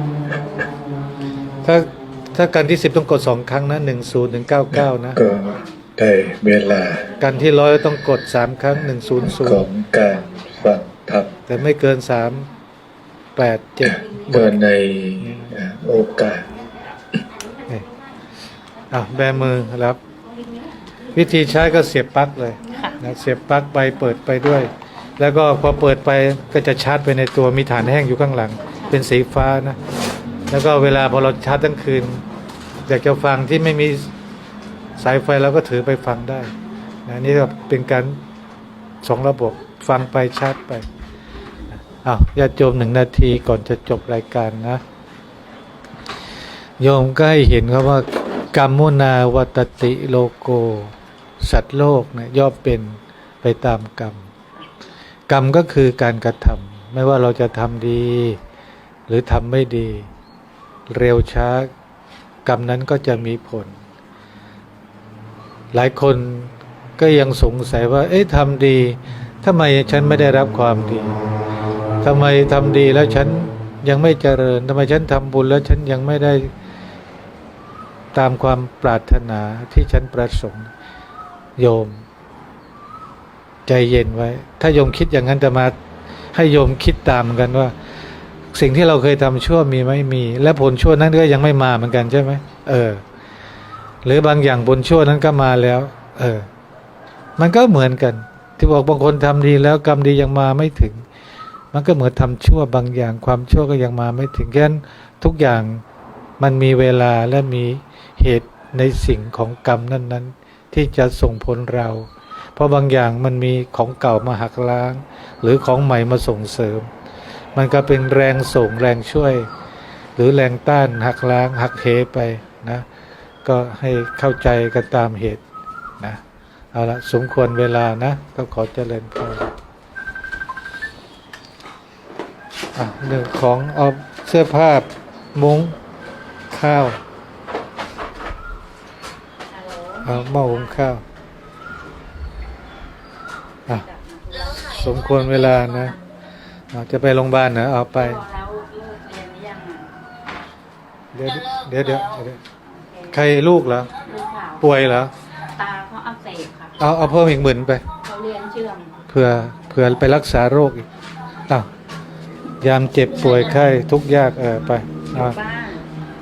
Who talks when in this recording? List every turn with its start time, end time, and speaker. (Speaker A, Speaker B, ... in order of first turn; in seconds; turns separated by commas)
Speaker A: 1.6-5.2, Speaker B: 5.1-7.2, Speaker A: 7.1-9.7, Speaker B: 9.2-11.5, Speaker A: 11.4-12.5, Speaker A: 13.3-14.6, Speaker B: 13.8-16.5, Speaker A: 15.2-15.6, Speaker A: 18.9-20.0, Speaker A: 21.1-29.8, Speaker C: 22.7-23.0, Speaker A: 30.5-32.2, Speaker A: 32.9-34.1, Speaker A: 35.0-36.5, Speaker A: 37.0-38.2, Speaker A: 39.0-40.9, Speaker A: 41.7-44.8, Speaker A: 46.8-54.3, Speaker A: 55.3-58.4, Speaker A: 59.1-60.1, Speaker A: 60.9-61.7, Speaker A: 62.4-63.8, Speaker A: 65.7-71.2, Speaker A: 72.0-76.5, Speaker A: 78.1-80.7, Speaker A: 81.6-82.0, Speaker A: 83.7-85.8, Speaker A: 86.3-87.7, Speaker A: 88.5-93.0, Speaker A: 94.0-96.5, Speaker A: 97.4-101.0, Speaker A: 101.7-105.8, Speaker A: 106.4-116.9, Speaker A: 117.5-119.5, Speaker A: 120.2-122.8, Speaker A: 123.4-125.4, Speaker A: 126.7-129.5, Speaker A: 132.7-135.8, Speaker A: 136.5-137.0, Speaker C: 139.5-140.4, Speaker A: 140.0-141.0, Speaker C: 143.7-144.8, Speaker A: 144.5-145.9, Speaker A: 146.7-148.2, Speaker C: 147.9-149.9, Speaker A: 151.1-152.4, Speaker C: 152.7-153.1, Speaker A: 153.1-153.9, Speaker C: 154.0-154.6, Speaker A: 154.6-155.1, Speaker C: 155.4-156.8, Speaker A: 156.8-157.8, Speaker C: 158.0-158.9, Speaker A: 159.1-160.8, Speaker A: 162.6-165.4, Speaker C: 165.1-165.9